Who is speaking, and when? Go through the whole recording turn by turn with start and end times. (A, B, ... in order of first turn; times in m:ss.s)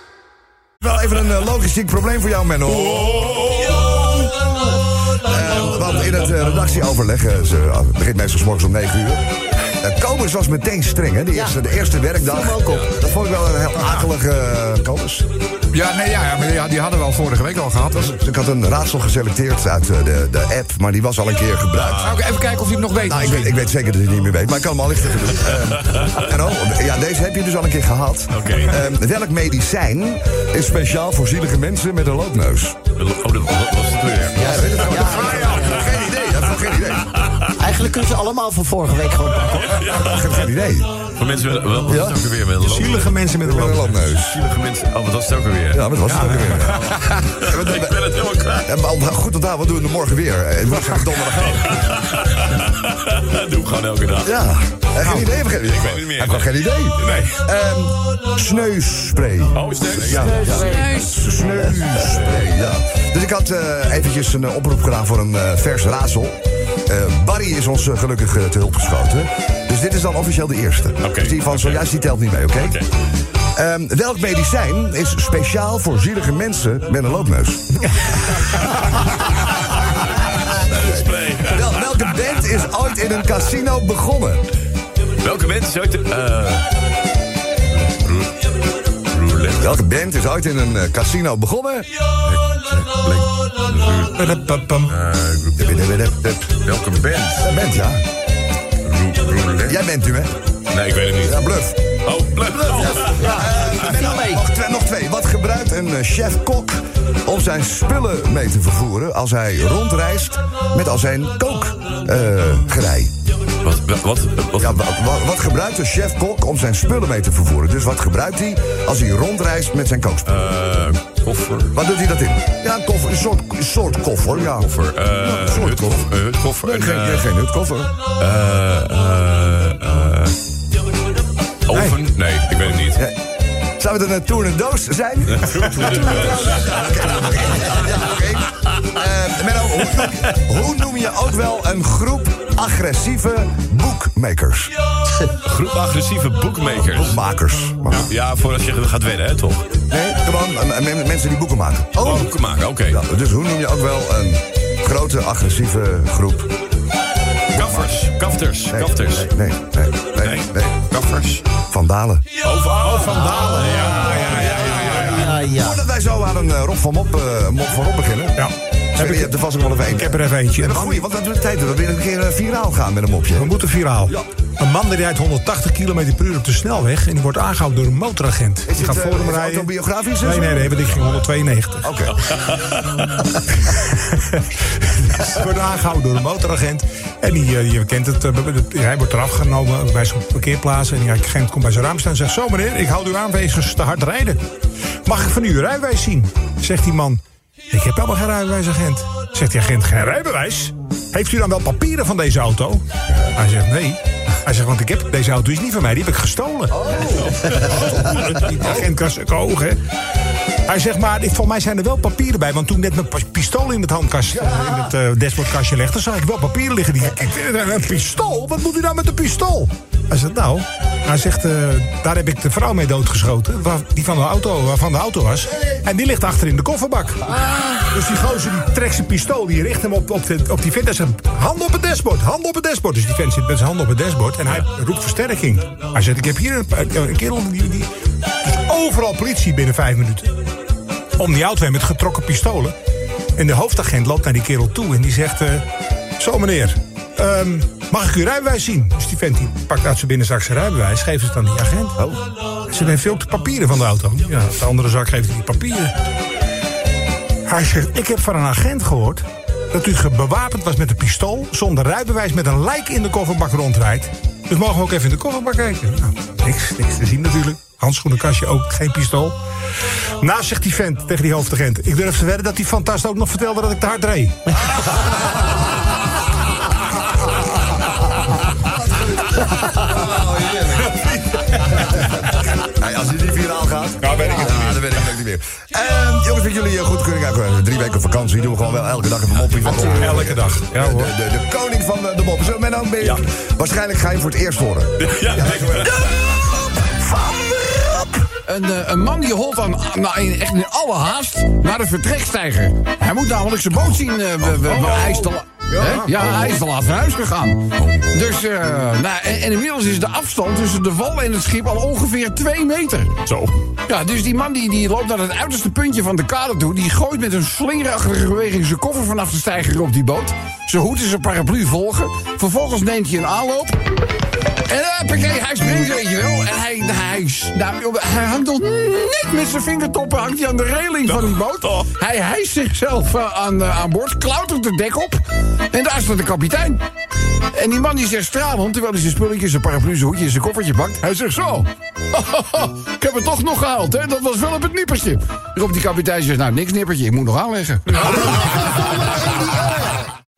0:00.8-0:09.2 A
0:09.8-0:15.3 A
0:12.2-0:12.9 B
0:15.7-0:18.0 C
0:17.9-0:22.1 A
0:21.8-0:22.2 D
0:22.0-0:23.5 C
0:23.1-0:32.8 A
0:28.3-0:28.8 D
0:33.0-0:35.0 D
0:34.4-0:37.2 A
0:34.4-0:36.0 B
0:35.1-0:35.6 E
0:37.2-0:37.5 D
0:37.6-0:39.7 B
0:39.5-0:40.3 D
0:39.8-0:40.9 A
0:41.2-0:43.2 D
0:41.9-0:42.2 A
0:42.6-0:44.0 E
0:43.4-0:44.4 A
0:44.2-0:45.9 D
0:45.7-0:48.0 A
0:46.0-0:47.1 E
0:46.5-0:48.8 D
0:48.6-0:52.0 A
0:51.2-0:54.3 D
0:54.2-1:12.8 A
0:55.0-0:55.3 E
0:55.6-0:57.4 D
0:59.5-1:00.7 D
1:00.3-1:02.3 C
1:00.4-1:00.9 B
1:11.0-1:11.9 D
1:12.6-1:12.9 D
1:13.5-1:18.3 A
1:20.1-1:22.1 D
1:20.5-1:24.4 A
1:25.2-1:26.7 D
1:27.7-1:28.4 D
1:29.1-1:29.8 D
1:29.6-1:31.9 A
1:32.5-1:33.8 A
1:33.7-1:34.1 D
1:34.2-1:34.9 E
1:34.9-1:35.8 D
1:35.6-1:36.5 A
1:36.5-1:37.5 D
1:37.4-1:38.0 A
1:38.8-1:39.8 D
1:39.7-1:40.4 A
1:40.7-1:41.4 D
1:41.2-1:41.8 A
1:42.0-1:43.9 D
1:42.9-1:53.1 A
1:43.0-1:44.4 B
1:53.6-1:54.8 D
1:54.6-2:00.5 A
2:00.3-2:01.7 D
2:01.7-2:06.1 A
2:04.4-2:07.3 D
2:06.6-2:07.9 A
2:08.2-2:10.4 D
2:11.7-2:13.0 D
2:11.7-2:12.0 E
2:12.9-2:13.2 A
2:13.8-2:24.7 A
2:15.4-2:17.3 D
2:25.2-2:27.2 D
2:26.8-2:28.1 A
2:28.1-2:29.7 D
2:29.9-2:32.3 A
2:32.0-2:33.0 D
2:32.9-2:36.5 A
2:37.5-2:39.3 D
2:37.6-2:38.0 A
2:38.7-2:40.7 A
2:40.2-2:41.4 D
2:41.7-2:42.2 A
2:42.4-2:45.1 D
2:42.8-2:45.4 E
2:44.4-2:48.4 A
2:45.0-2:45.8 B
2:48.4-2:49.3 E
2:49.0-2:53.5 A
2:49.9-2:51.0 E
2:53.4-3:01.9 E
2:58.7-3:01.3 A
3:01.8-3:02.2 A
3:03.6-3:14.4 E
3:15.0-3:29.8 E
3:26.7-3:27.6 A
3:30.7-3:57.9 E
3:58.4-4:00.3 E
4:01.2-4:02.8 E
4:03.4-4:05.6 E
4:06.2-4:12.0 E
4:12.7-4:16.0 E
4:17.5-4:29.4 E
4:30.2-4:34.6 E
4:39.4-4:56.1 A
4:44.0-4:44.8 E
4:49.7-4:51.1 E
4:55.0-4:56.1 D
4:58.4-5:13.2 C
5:04.7-5:06.1 E
5:13.8-5:23.8 C
5:24.7-5:36.8 C
5:31.1-5:31.9 D
5:37.5-5:49.6 C